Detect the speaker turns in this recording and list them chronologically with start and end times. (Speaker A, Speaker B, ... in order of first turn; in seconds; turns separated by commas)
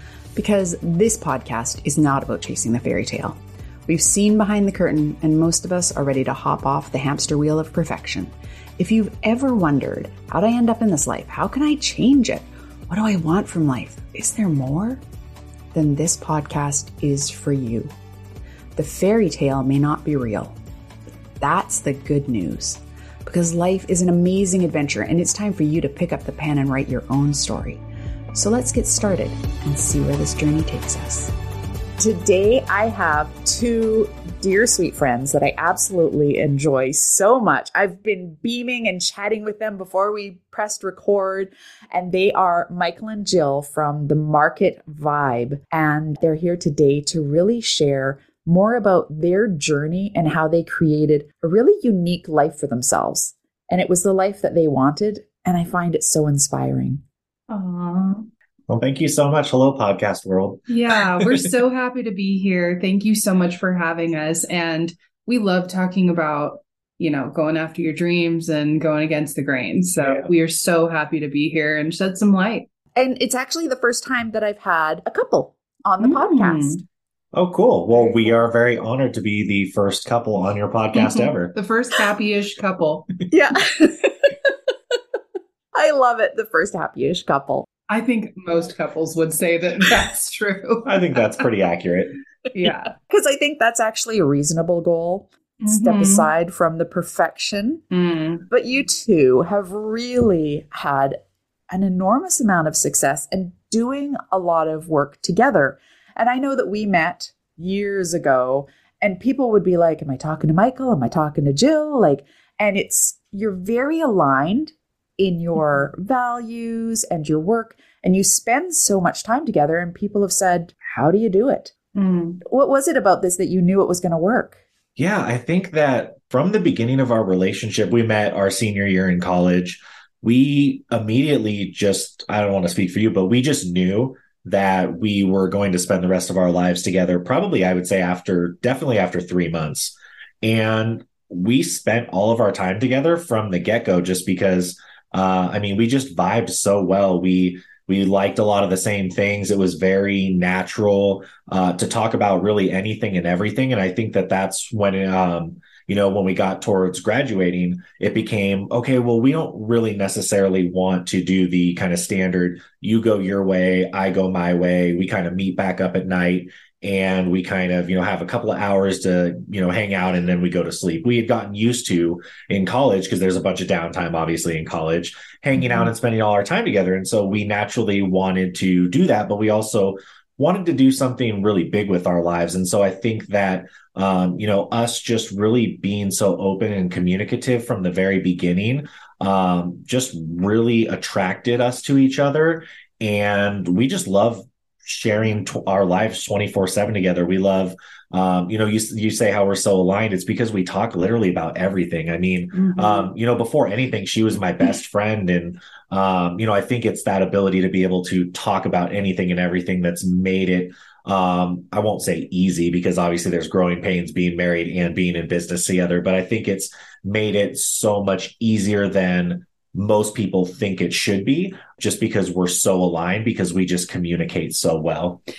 Speaker A: 0.4-15.0, Speaker A: 15.7-17.9, Speaker A: 18.8-20.6, Speaker A: 21.4-27.8, Speaker A: 28.3-31.3, Speaker A: 32.0-57.0, Speaker B: 57.5-58.3, Speaker C: 58.7-61.5, Speaker B: 60.7-72.7, Speaker C: 70.0-70.3, Speaker A: 73.0-76.8, Speaker B: 76.0-76.8, Speaker C: 77.3-81.5, Speaker B: 80.9-83.1, Speaker A: 83.3-84.3, Speaker A: 85.7-87.7, Speaker B: 87.9-91.4, Speaker C: 90.8-92.2, Speaker B: 92.5-92.9, Speaker A: 93.1-97.8, Speaker B: 95.6-96.3, Speaker B: 97.9-98.4, Speaker A: 98.5-101.2, Speaker A: 101.7-121.7, Speaker B: 121.9-122.4, Speaker A: 122.4-124.6, Speaker C: 125.0-225.2, Speaker B: 202.6-203.0